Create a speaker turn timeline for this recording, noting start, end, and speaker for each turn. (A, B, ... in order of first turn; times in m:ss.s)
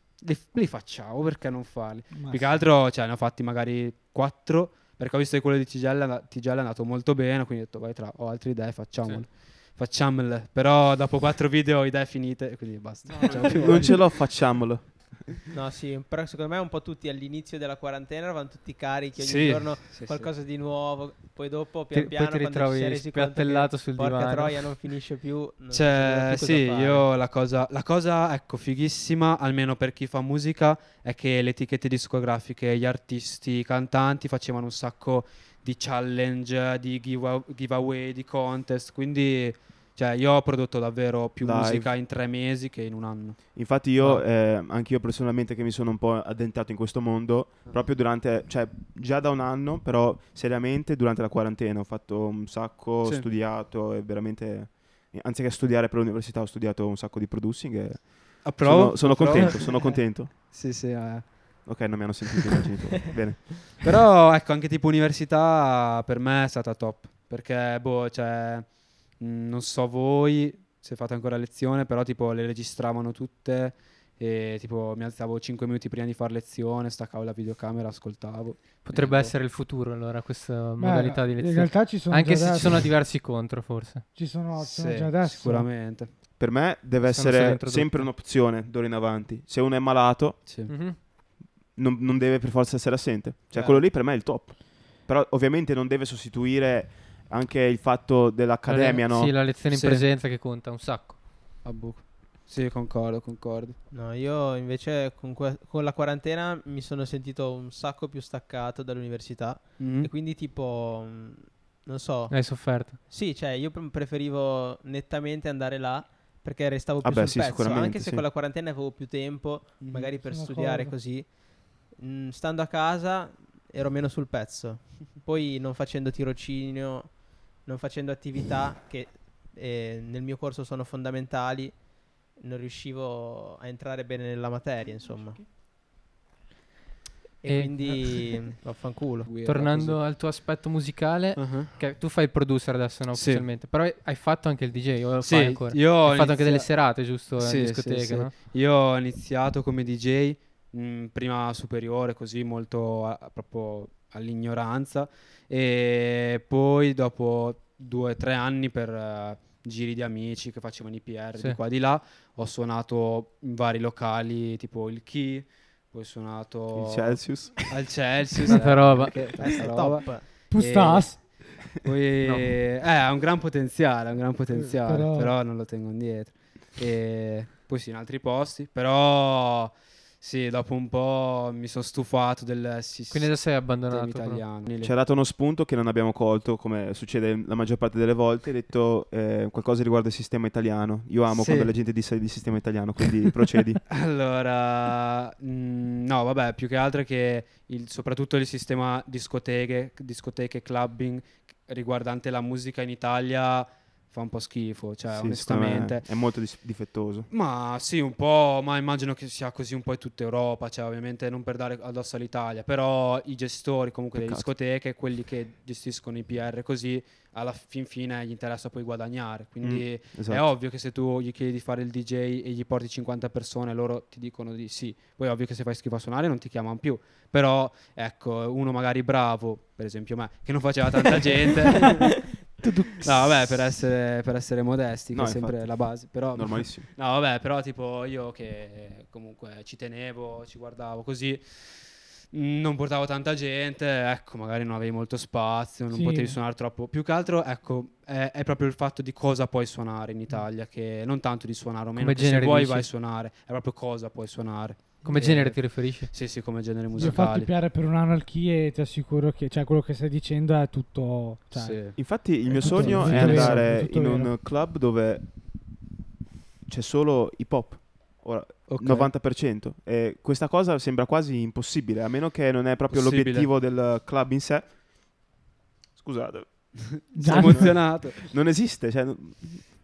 0:00.2-0:14.1 A
0:02.1-0:02.7 B
0:13.2-0:15.3 C
0:15.5-0:27.1 D
0:19.2-0:20.3 A
0:21.9-0:24.7 E
0:25.7-0:44.2 A
0:41.4-0:41.9 C
0:43.6-1:00.3 C
0:58.4-1:01.8 A
1:01.6-1:03.9 C
1:03.8-1:19.3 A
1:18.8-1:24.1 E
1:20.8-1:23.0 B
1:24.2-1:25.7 B
1:24.6-1:26.1 A
1:26.4-1:30.4 C
1:27.0-1:28.1 E
1:30.5-1:30.7 A
1:30.7-1:31.0 E
1:31.7-1:39.4 C
1:33.5-1:33.8 A
1:38.7-1:41.2 E
1:39.6-1:40.1 A
1:41.6-1:43.8 A
1:43.9-2:15.4 D
1:49.8-1:50.1 A
1:52.3-1:53.0 E
1:57.0-1:58.3 C
1:59.8-2:00.1 A
2:00.2-2:01.0 B
2:17.4-2:19.4 D
2:17.4-2:18.4 E
2:19.2-2:20.0 A
2:19.4-2:28.4 E
2:21.4-2:21.8 A
2:23.1-2:23.5 A
2:25.2-3:05.0 A
2:46.7-2:47.7 C
2:48.5-2:49.4 E
2:49.4-2:50.3 D
2:50.5-2:51.2 B
2:52.2-2:52.6 E
2:54.8-2:55.3 B
3:03.1-3:04.4 E
3:04.8-3:13.8 C
3:11.3-3:11.7 A
3:13.9-3:26.1 A
3:25.1-3:27.3 C
3:27.3-4:01.8 A
3:34.2-3:34.5 C
3:39.6-3:40.5 C
3:55.1-3:56.9 C
4:02.3-4:17.5 A
4:05.9-4:06.4 B
4:12.0-4:12.9 E
4:15.0-4:16.1 E
4:17.0-4:24.3 B
4:21.6-4:23.6 A
4:22.0-4:25.3 C
4:26.7-4:34.7 C
4:28.7-4:29.1 A
4:32.9-4:33.5 A
4:36.0-4:36.8 C
4:36.8-4:38.3 A
4:37.2-4:37.8 B
4:37.3-4:39.6 C